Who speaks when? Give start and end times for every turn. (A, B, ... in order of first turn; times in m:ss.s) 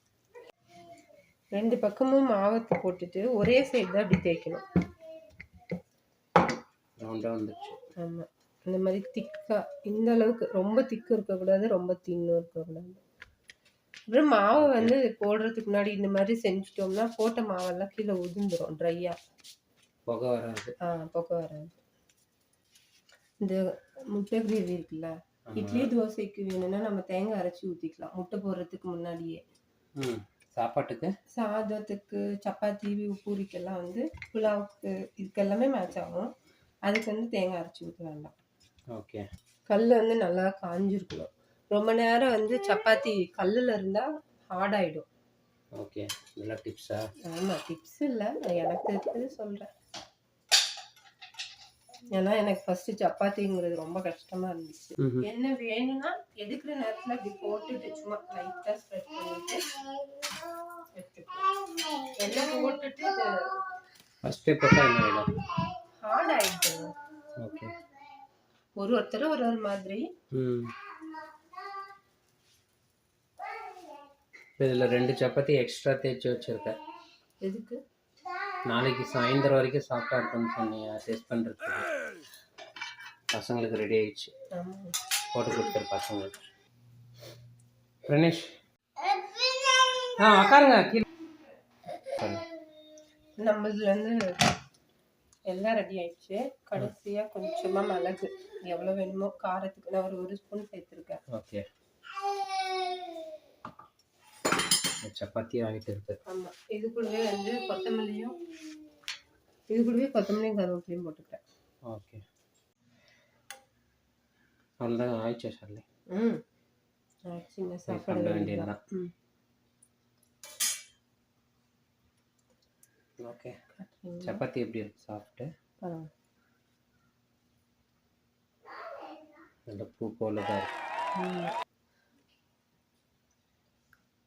0:01.5-0:04.6 A
0:07.0-0:07.8 B
0:08.0-0:13.0 A
0:14.1-0:19.2 A
0:14.5-0:14.9 B
0:20.1-0:20.7 B
0:20.8-0:21.8 A
0:24.1-0:29.4 A
0:25.5-0:25.9 B
0:30.0-0:31.1 B
0:31.3-0:36.3 A
0:36.9-0:38.3 A
0:38.9-0:39.2 B
0:39.7-0:45.0 A
0:45.8-0:47.0 B
0:47.2-0:49.7 A
0:52.1-0:59.6 A
0:55.0-0:55.2 B
1:01.0-1:01.4 A
1:02.2-1:03.6 A
1:04.2-1:05.4 B
1:06.0-1:06.9 A
1:07.4-1:07.7 B
1:08.8-1:10.0 A
1:10.3-1:10.7 B
1:14.6-1:16.7 B
1:17.4-1:17.8 A
1:18.7-1:21.9 B
1:23.3-1:24.3 B
1:24.5-1:24.9 A
1:25.3-1:26.4 B
1:28.1-1:28.5 B
1:30.1-1:31.0 B
1:32.1-1:32.4 B
1:33.4-1:34.4 A
1:35.5-1:41.2 A
1:41.3-1:41.6 B
1:45.0-1:46.2 B
1:46.3-1:48.3 A
1:49.7-1:51.4 A
1:51.9-1:52.2 B
1:54.8-1:55.8 B
1:56.1-1:56.4 A
1:57.3-1:59.1 A
1:57.9-1:58.8 B
2:03.2-2:03.5 B
2:03.8-2:04.4 A
2:04.2-2:05.5 B
2:05.8-2:06.1 A
2:09.7-2:10.7 B
2:11.2-2:11.5 A